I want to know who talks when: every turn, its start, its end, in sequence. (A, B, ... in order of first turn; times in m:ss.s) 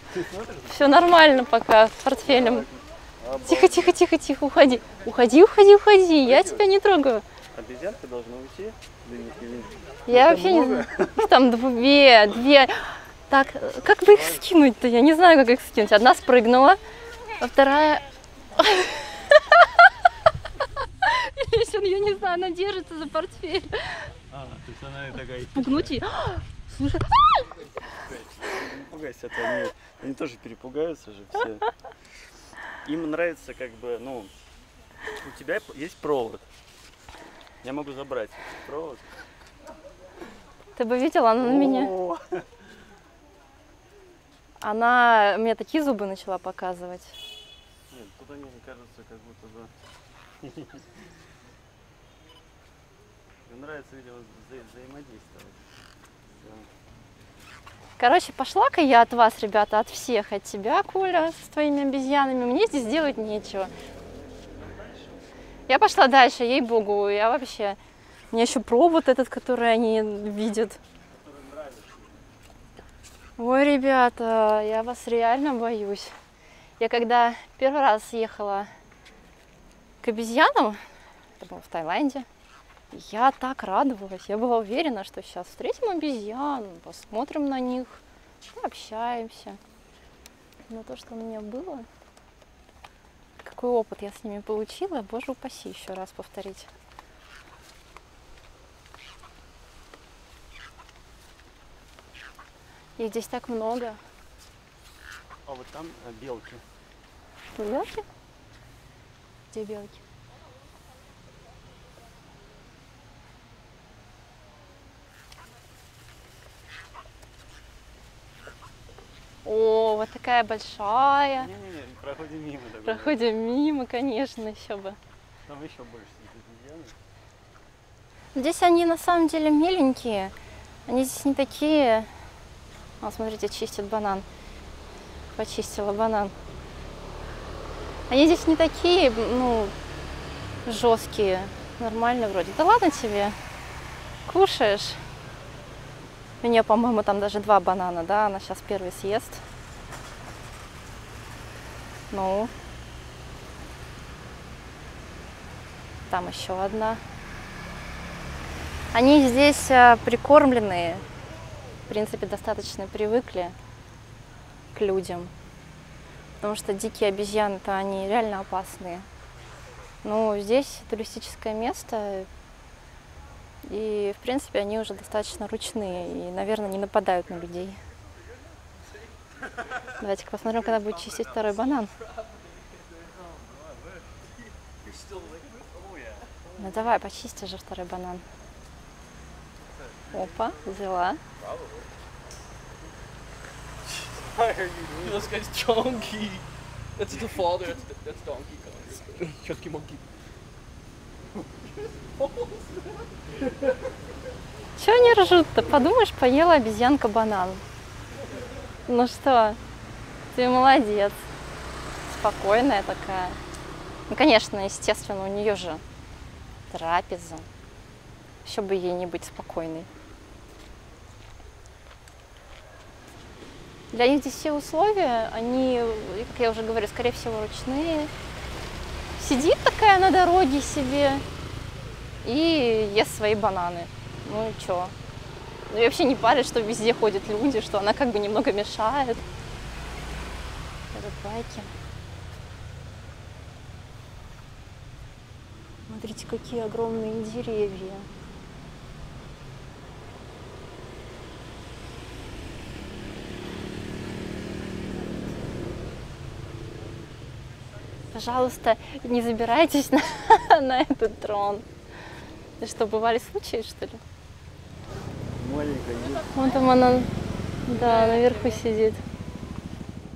0:00.1-0:01.0 A
0:00.7-0:02.7 B
0:02.3-0:04.0 A
0:03.4-0:07.2 B
0:06.3-0:06.6 A
0:07.5-0:11.2 A
0:10.1-0:16.8 B
0:14.0-0:14.4 A
0:17.4-0:19.9 B
0:21.0-0:24.1 B
0:24.3-0:25.9 A
0:25.5-0:27.5 B
0:28.1-0:31.7 A
0:32.8-0:34.3 A
0:35.1-0:36.4 A
0:37.6-0:39.0 A
0:40.8-0:41.9 B
0:41.4-0:42.5 A
0:44.6-0:47.1 B
0:47.9-0:49.7 A
0:50.4-0:50.9 A
0:53.5-0:55.6 A
0:56.4-0:56.7 A
0:58.0-1:03.7 B
1:04.6-1:05.1 A
1:05.7-1:07.8 B
1:08.3-1:10.8 B
1:11.1-1:12.1 A
1:13.4-1:16.1 B
1:16.8-1:18.7 B
1:20.0-1:20.8 B
1:21.4-1:22.2 B
1:22.9-1:29.6 B
1:30.7-1:31.9 B
1:33.4-1:36.7 B
1:43.0-1:44.0 B
1:45.4-1:46.6 A
1:47.6-1:48.0 B
1:49.5-1:50.0 B
1:59.4-2:01.5 B
2:01.4-2:03.2 A
2:02.8-2:05.0 B
2:05.4-2:07.0 A
2:08.3-2:10.3 B
2:10.9-2:12.1 B
2:13.0-2:14.2 B
2:15.4-2:16.3 B
2:18.1-2:19.7 B
2:20.6-2:23.4 B
2:24.2-2:25.0 B
2:26.4-2:29.4 B
2:32.1-2:32.5 B
2:36.1-2:37.0 B
2:38.9-2:41.0 B
2:41.9-2:43.5 B
2:44.7-2:45.3 B
2:46.4-2:49.1 B
2:50.0-2:52.3 B
2:53.6-2:57.8 B
3:00.0-3:01.9 B
3:06.6-3:08.2 B
3:10.1-3:11.2 B
3:14.2-3:15.4 A
3:15.2-3:16.4 C
3:17.0-3:19.0 C
3:19.0-3:20.0 A
3:24.8-3:27.6 B
3:28.9-3:29.6 B
3:30.3-3:31.1 B
3:32.1-3:33.4 B
3:34.1-3:35.8 B
3:36.7-3:37.5 B
3:38.4-3:39.9 B
3:43.9-3:48.1 B
3:49.2-3:51.2 B
3:52.2-3:54.9 B
3:55.7-3:59.2 B
4:00.9-4:01.7 B
4:05.9-4:08.1 B
4:18.1-4:21.6 B
4:22.6-4:24.0 B
4:25.3-4:26.3 A
4:26.3-4:27.1 B
4:27.6-4:29.0 B